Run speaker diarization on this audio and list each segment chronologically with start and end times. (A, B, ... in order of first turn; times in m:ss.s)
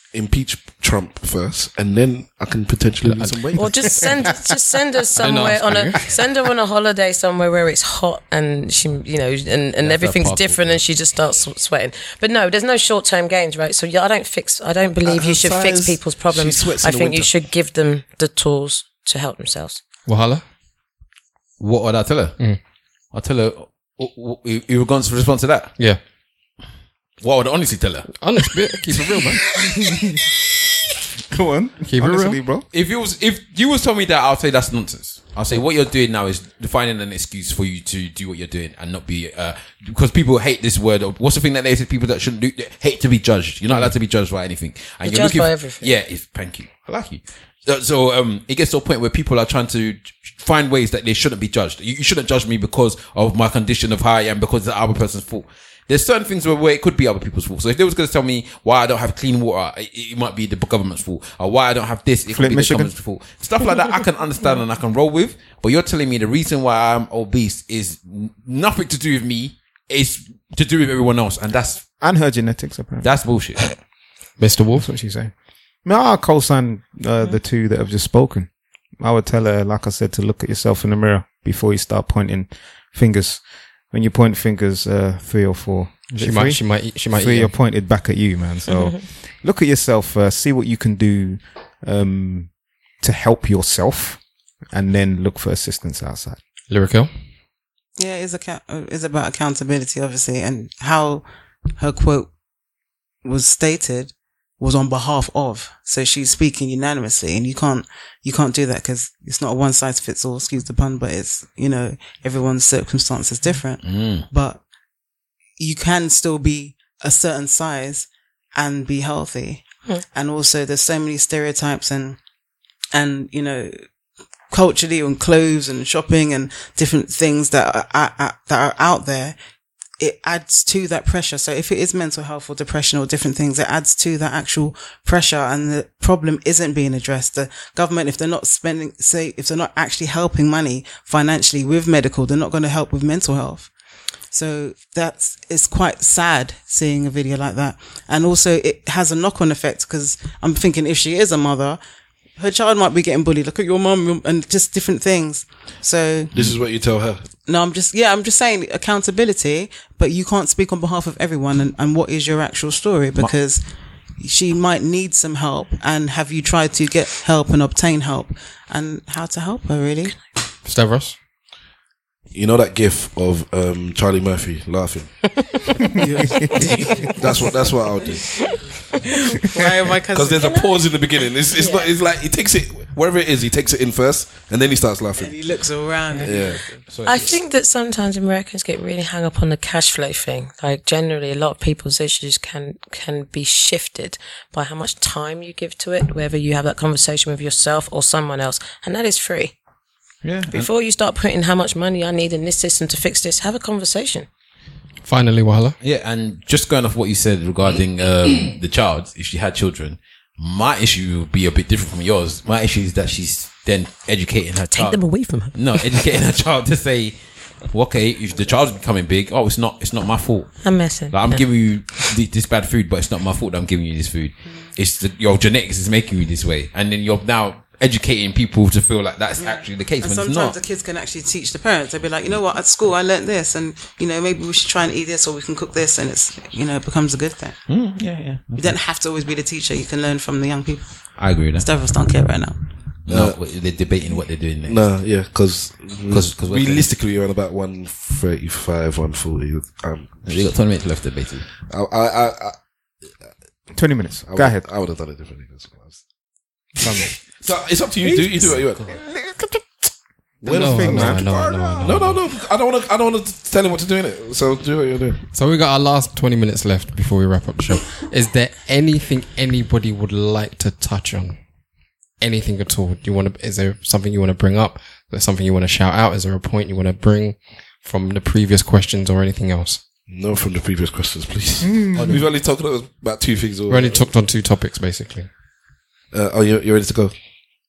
0:00.1-0:04.2 A
0:03.1-0:04.4 B
0:03.6-0:19.8 C
0:05.2-0:06.0 B
0:09.8-0:10.8 B
0:15.0-0:17.3 A
0:20.1-0:20.4 B
0:21.6-0:22.4 D
0:23.1-0:25.7 D
0:27.2-0:28.1 D
0:28.1-0:29.4 B
0:29.8-0:30.2 E
0:31.3-0:32.7 E
0:31.9-0:32.4 B
0:32.7-1:11.8 D
0:45.0-0:45.9 C
1:02.3-1:02.9 E
1:12.0-1:13.1 E
1:13.0-1:13.7 D
1:14.4-1:14.9 B
1:14.8-1:15.3 E
1:15.8-1:32.5 E
1:26.2-1:27.5 B
1:28.7-1:29.0 C
1:33.0-1:34.2 E
1:34.7-1:36.4 E
1:36.7-1:37.1 B
1:38.0-1:41.3 F
1:41.8-1:42.3 F
1:43.2-1:54.6 F
1:53.8-1:54.3 D
1:55.6-2:02.2 F
2:02.9-2:03.8 F
2:04.5-2:09.4 F
2:10.0-2:23.7 F
2:24.3-2:31.8 F
2:32.4-2:36.4 F
2:36.3-2:37.2 A
2:37.5-2:43.6 F
2:44.2-2:50.2 F
2:50.6-2:51.2 B
2:52.3-2:55.1 A
2:55.9-2:58.5 F
2:56.7-2:58.4 A
2:59.1-2:59.4 C
2:59.2-3:00.6 F
3:00.0-3:05.4 A
3:00.4-3:00.7 C
3:01.6-3:01.9 C
3:05.2-3:07.3 F
3:06.2-3:06.6 A
3:06.9-3:07.4 D
3:07.1-3:19.6 C
3:20.5-3:24.3 C
3:25.0-3:25.8 B
3:25.8-3:37.2 D
3:34.7-3:36.0 C
3:37.7-3:50.6 D
3:40.6-3:41.4 C
3:49.4-3:57.7 F
3:57.7-3:58.8 D
3:58.6-4:02.6 F
4:01.2-4:01.7 D
4:03.1-4:04.8 D
4:03.1-4:03.4 A
4:04.6-4:10.5 A
4:06.1-4:06.9 D
4:10.3-4:11.5 D
4:11.7-4:12.6 A
4:13.7-4:14.6 E
4:14.3-4:16.0 A
4:17.3-4:19.0 A
4:18.9-4:19.6 E
4:20.4-4:21.9 E
4:20.4-4:25.2 A
4:20.5-4:22.2 B
4:25.3-4:31.4 B
4:32.2-4:39.8 B
4:40.1-4:44.1 A
4:41.6-4:42.2 E
4:43.7-4:45.3 B
4:46.1-4:47.1 A